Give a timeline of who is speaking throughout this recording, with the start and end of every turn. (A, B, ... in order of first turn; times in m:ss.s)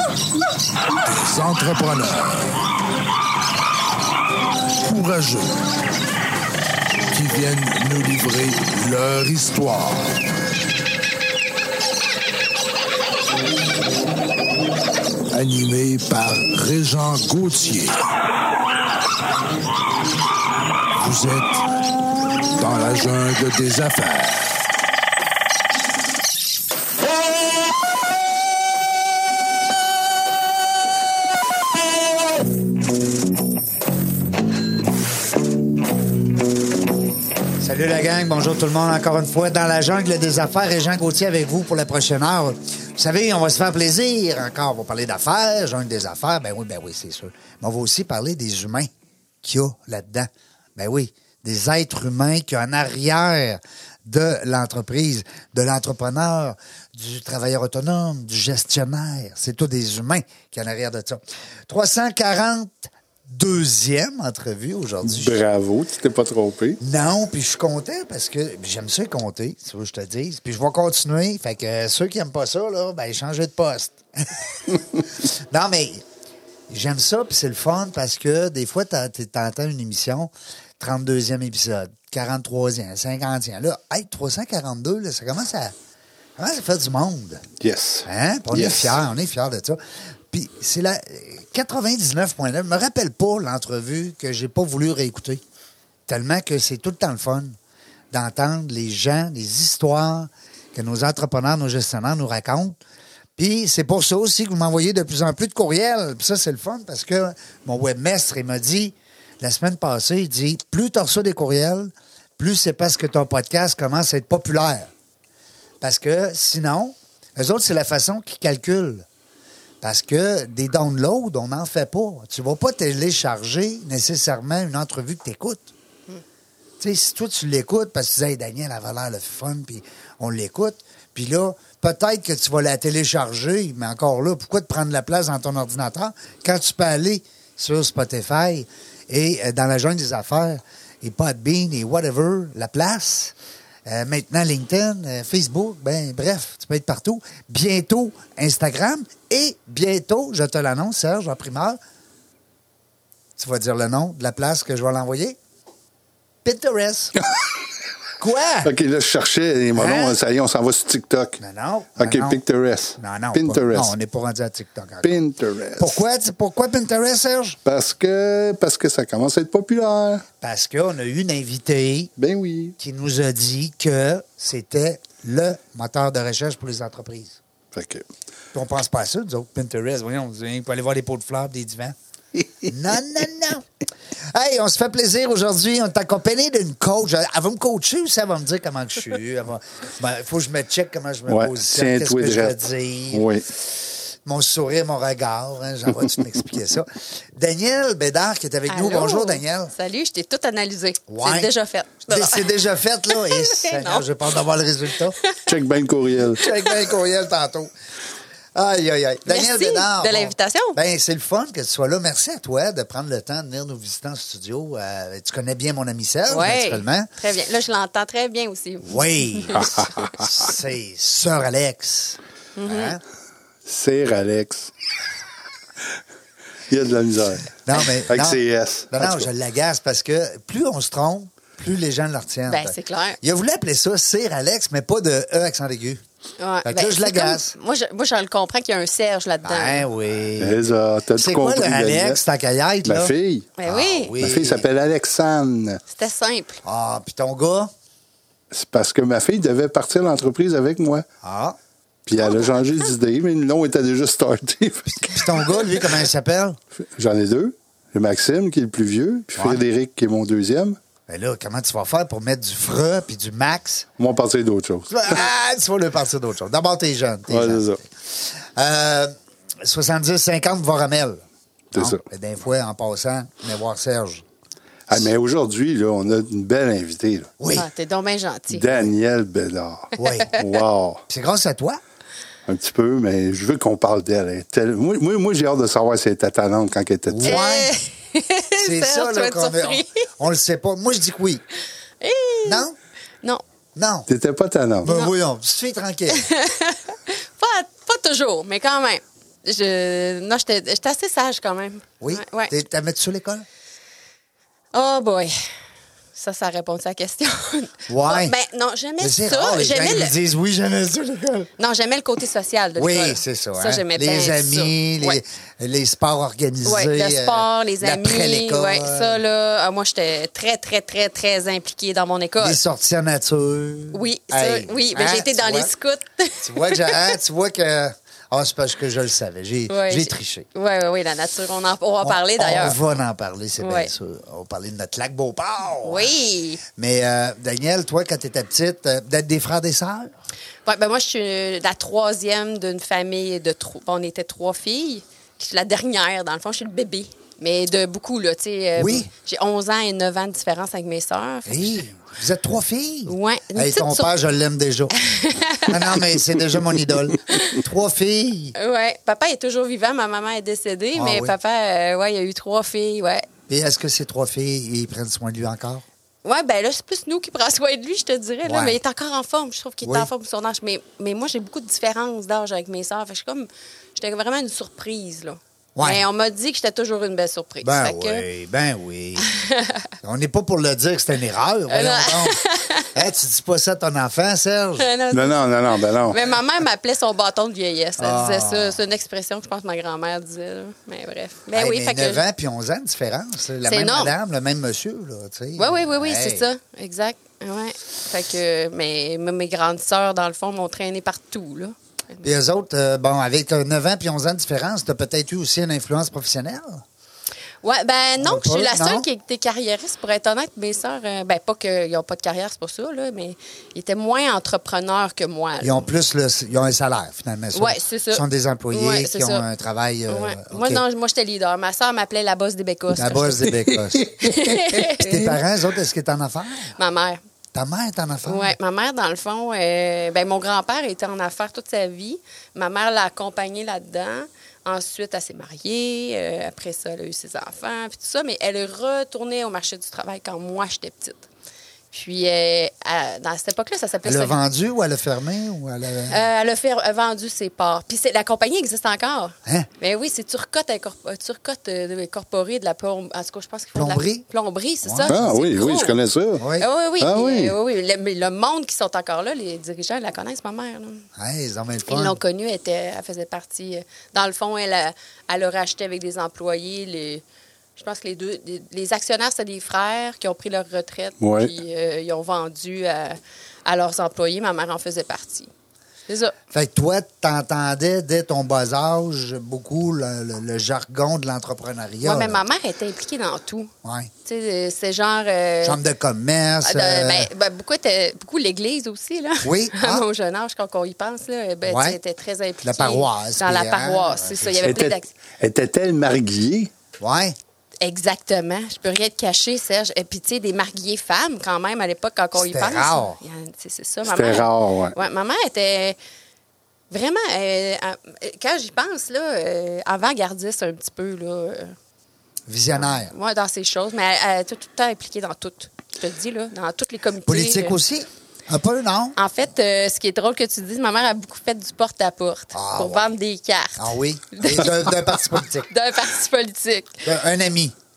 0:01.1-0:02.6 A
0:04.8-0:05.6 A
0:07.1-0:10.1 A
0:15.3-0:18.0 A
0:21.0-0:21.6 A
0:22.6-0:24.6 A
0:37.6-0:48.9 B
0:49.4-1:05.4 B
1:05.0-1:06.8 C
1:06.8-1:16.0 B
1:16.7-1:25.7 B
1:26.4-1:27.4 B
1:27.6-1:29.0 C
1:28.0-1:29.8 B
1:30.3-1:35.4 B
1:36.1-1:37.6 B
1:38.1-1:42.8 B
1:43.4-1:54.9 B
1:55.8-1:59.1 B
1:59.8-2:05.7 B
2:06.8-2:23.4 B
2:23.9-2:31.8 B
2:33.4-2:35.4 B
2:36.4-2:37.2 B
2:38.2-2:38.7 B
2:38.6-2:41.4 C
2:39.7-2:40.2 B
2:41.4-2:42.4 B
2:42.0-2:43.9 C
2:43.0-2:45.2 B
2:45.0-2:46.0 C
2:45.8-2:47.6 B
2:47.6-2:50.2 C
2:50.4-2:52.1 B
2:52.2-2:52.8 C
2:52.8-2:57.4 B
2:57.7-2:58.0 C
2:58.5-3:02.0 B
3:02.7-3:03.7 B
3:04.3-3:13.3 B
3:11.3-3:12.6 C
3:13.1-3:13.5 C
3:14.2-3:19.7 B
3:18.7-3:22.5 D
3:21.1-3:21.5 B
3:22.1-3:25.2 B
3:23.1-3:24.1 D
3:25.5-3:26.4 C
3:26.4-3:27.7 B
3:26.4-3:26.8 D
3:28.6-3:37.1 B
3:29.3-3:30.8 D
3:36.3-3:39.8 D
3:38.8-3:43.0 B
3:39.6-3:40.1 C
3:42.6-3:43.0 D
3:43.7-3:44.7 C
3:46.7-3:47.6 C
3:47.6-3:56.0 B
3:48.1-3:49.3 C
3:52.5-3:53.2 D
3:56.4-3:59.9 D
3:56.6-3:57.6 B
3:59.4-4:03.1 B
4:00.4-4:02.2 C
4:02.8-4:03.5 C
4:03.6-4:04.1 D
4:03.7-4:04.7 B
4:04.2-4:05.8 C
4:05.9-4:06.6 D
4:06.6-4:07.7 B
4:08.5-4:11.1 C
4:11.2-4:11.6 B
4:12.1-4:15.3 C
4:12.2-4:12.6 D
4:15.1-4:16.6 B
4:16.8-4:20.8 C
4:19.4-4:19.6 B
4:21.1-4:23.9 B
4:24.0-4:25.2 C
4:24.9-4:31.2 B
4:27.3-4:27.8 C
4:31.7-4:32.0 C
4:31.8-4:34.2 B
4:34.9-4:37.3 C
4:37.4-4:37.7 B
4:37.5-4:38.8 D
4:38.5-4:41.0 C
4:40.0-4:40.4 B
4:41.1-4:41.8 B
4:42.5-4:47.4 C
4:47.1-4:47.7 B
4:47.2-4:50.0 D
4:48.6-4:51.4 B
4:52.0-4:52.6 D
4:52.4-4:52.8 B
4:53.8-4:54.1 B
4:54.1-4:54.9 C
4:54.8-4:56.3 B
4:56.1-5:02.5 D
5:02.0-5:03.5 B
5:04.7-5:05.3 D
5:06.2-5:10.1 D
5:07.9-5:08.4 B
5:09.0-5:11.5 B
5:11.6-5:15.2 D
5:12.8-5:19.2 B
5:16.6-5:22.6 D
5:22.4-5:25.7 B
5:23.9-5:27.2 D
5:26.4-5:30.5 B
5:29.7-5:32.8 D
5:32.0-5:36.1 B
5:33.6-5:33.9 D
5:35.8-5:36.6 D
5:36.7-5:40.1 B
5:40.7-5:51.8 D
5:48.8-5:49.1 B
5:51.5-5:55.0 B
5:53.1-5:54.1 D
5:55.0-5:56.0 D
5:55.6-5:58.6 B
5:57.3-5:57.6 D
5:58.6-6:03.3 D
6:01.0-6:01.3 B
6:03.5-6:05.8 B
6:06.2-6:18.3 D
6:08.4-6:08.8 B
6:09.8-6:10.1 B
6:15.8-6:16.0 B
6:17.6-6:19.3 B
6:19.2-6:19.9 D
6:20.0-6:22.4 B
6:21.7-6:22.9 D
6:22.9-6:24.9 B
6:24.8-6:25.4 D
6:25.1-6:26.2 C
6:26.0-6:32.2 D
6:28.0-6:28.8 B
6:31.5-6:36.5 B
6:33.6-6:34.1 D
6:35.6-6:42.3 D
6:42.2-6:46.8 B
6:47.6-6:55.9 D
6:48.2-6:49.1 B
6:55.6-7:00.8 B
6:57.5-6:59.4 D
7:00.1-7:05.4 D
7:02.9-7:06.8 B
7:06.8-7:07.2 D
7:07.5-7:08.6 B
7:08.2-7:21.3 D
7:21.9-7:24.4 D
7:24.0-7:26.2 B
7:26.1-7:36.0 D
7:33.8-7:34.2 B
7:34.8-7:35.2 B
7:35.1-7:36.4 C
7:36.4-7:36.7 B
7:36.6-7:41.1 D
7:37.0-7:37.6 C
7:41.2-7:42.2 B
7:41.9-7:47.2 D
7:47.8-7:55.5 D
7:51.2-7:51.5 C
7:56.1-7:56.4 D
7:56.5-8:02.4 B
8:02.0-8:03.7 D
8:03.8-8:04.1 B
8:04.2-8:05.8 D
8:05.6-8:07.3 B
8:06.6-8:15.1 D
8:09.4-8:10.1 B
8:11.6-8:12.0 B
8:12.6-8:14.8 B
8:14.6-8:16.7 C
8:17.0-8:17.4 B
8:17.8-8:26.0 D
8:22.4-8:23.2 B
8:24.1-8:25.0 C
8:26.9-8:31.8 D
8:32.5-8:33.1 B
8:32.8-8:37.8 D
8:37.3-8:39.2 B
8:39.2-8:44.9 D
8:42.5-8:43.1 B
8:43.8-8:45.7 B
8:45.7-8:47.0 D
8:47.0-8:47.7 B